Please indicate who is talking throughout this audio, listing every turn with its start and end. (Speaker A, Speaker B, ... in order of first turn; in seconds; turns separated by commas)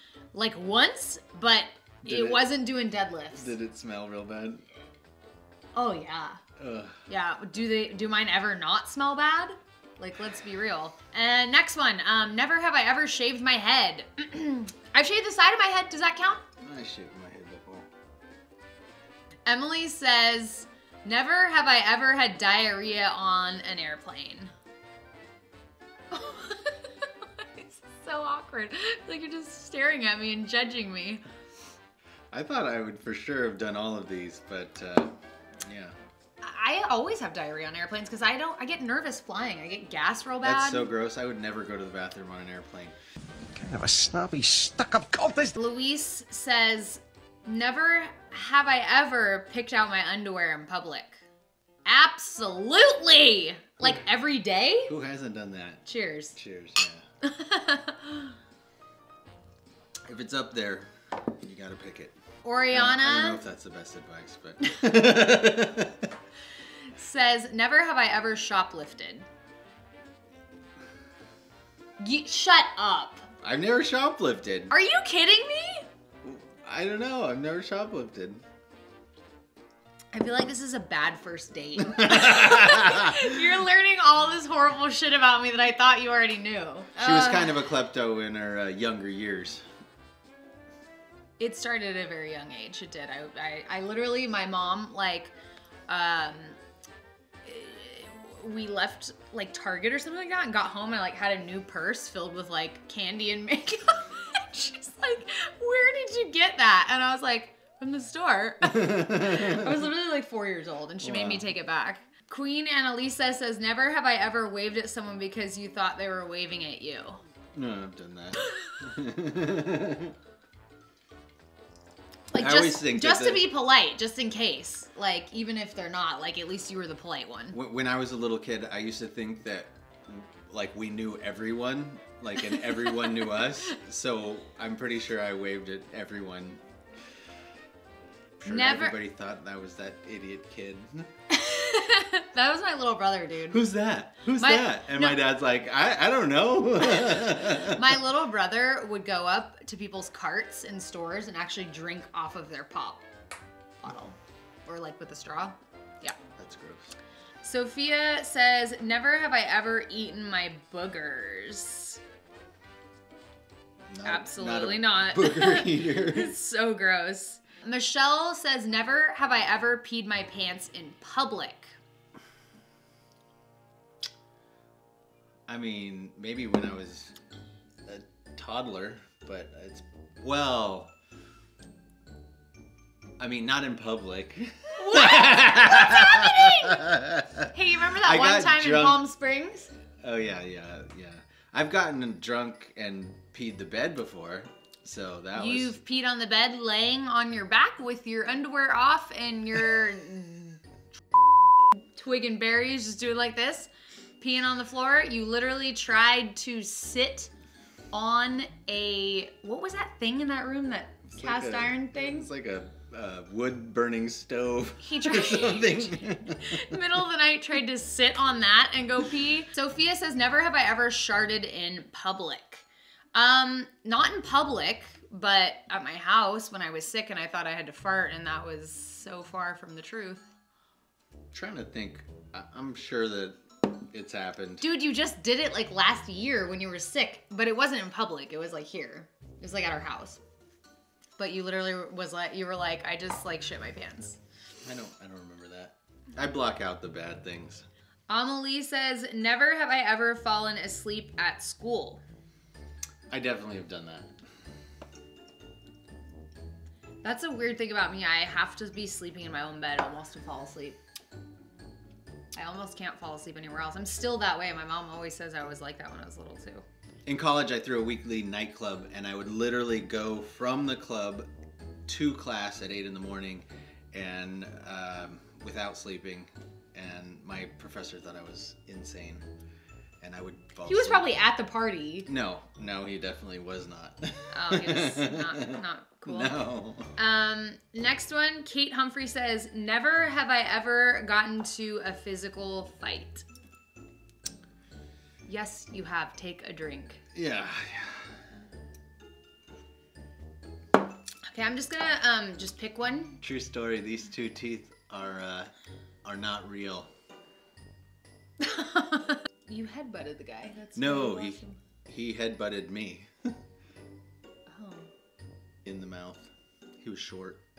Speaker A: 0.3-3.5, Speaker B: 2.0-2.5, Speaker B: 3.3-4.6, Speaker A: 5.7-6.4, Speaker B: 6.6-7.0, Speaker A: 7.1-16.4, Speaker B: 16.6-17.9, Speaker A: 19.4-24.5, Speaker A: 26.1-31.2, Speaker B: 32.3-35.9, Speaker A: 36.4-40.9, Speaker B: 40.4-43.0, Speaker C: 43.5-45.5, Speaker A: 45.5-51.2, Speaker A: 51.9-54.9, Speaker B: 54.9-57.0, Speaker A: 55.9-56.4, Speaker A: 57.2-58.3, Speaker B: 60.1-62.1, Speaker A: 62.4-63.4, Speaker B: 62.7-66.1, Speaker A: 67.0-69.2, Speaker A: 72.0-73.3, Speaker B: 73.4-74.7, Speaker A: 74.7-75.8, Speaker B: 76.2-78.4, Speaker A: 80.1-87.7, Speaker B: 81.8-83.2, Speaker B: 87.0-89.6, Speaker A: 91.4-95.3, Speaker A: 95.9-96.6, Speaker A: 97.4-117.2, Speaker B: 108.6-109.7, Speaker B: 111.0-111.5, Speaker B: 117.5-120.1, Speaker A: 122.3-127.5, Speaker B: 122.3-123.5, Speaker B: 127.5-136.6, Speaker A: 132.4-133.7, Speaker B: 138.4-141.1, Speaker A: 138.4-138.9, Speaker A: 141.3-143.6, Speaker B: 143.5-147.9, Speaker A: 144.3-145.2, Speaker A: 146.8-153.0, Speaker A: 153.8-156.2, Speaker B: 156.3-156.9, Speaker A: 157.4-162.0, Speaker B: 163.9-166.3, Speaker A: 164.0-171.7, Speaker B: 175.5-177.1, Speaker B: 177.8-180.9, Speaker B: 183.2-187.5, Speaker A: 184.8-186.9, Speaker A: 187.5-189.7, Speaker B: 188.0-189.0, Speaker B: 190.0-195.8, Speaker A: 195.3-200.6, Speaker A: 201.9-207.3, Speaker A: 207.9-212.3, Speaker B: 211.1-216.5, Speaker A: 214.8-230.2, Speaker B: 231.3-233.4, Speaker B: 233.9-234.6, Speaker A: 234.6-240.2, Speaker A: 241.2-244.2, Speaker B: 244.6-247.7, Speaker A: 248.1-252.0, Speaker B: 253.1-254.1, Speaker A: 257.0-260.8, Speaker A: 262.3-266.6, Speaker B: 267.1-271.3, Speaker B: 271.9-279.2, Speaker B: 280.0-281.1, Speaker A: 280.6-282.1, Speaker B: 282.1-286.9, Speaker A: 284.3-293.2, Speaker A: 295.2-297.0, Speaker B: 297.1-298.1, Speaker A: 301.3-303.2, Speaker B: 303.2-305.5, Speaker B: 306.0-306.9, Speaker A: 308.4-311.6, Speaker B: 310.7-313.1, Speaker A: 314.5-314.9, Speaker B: 315.6-316.3, Speaker B: 316.8-317.4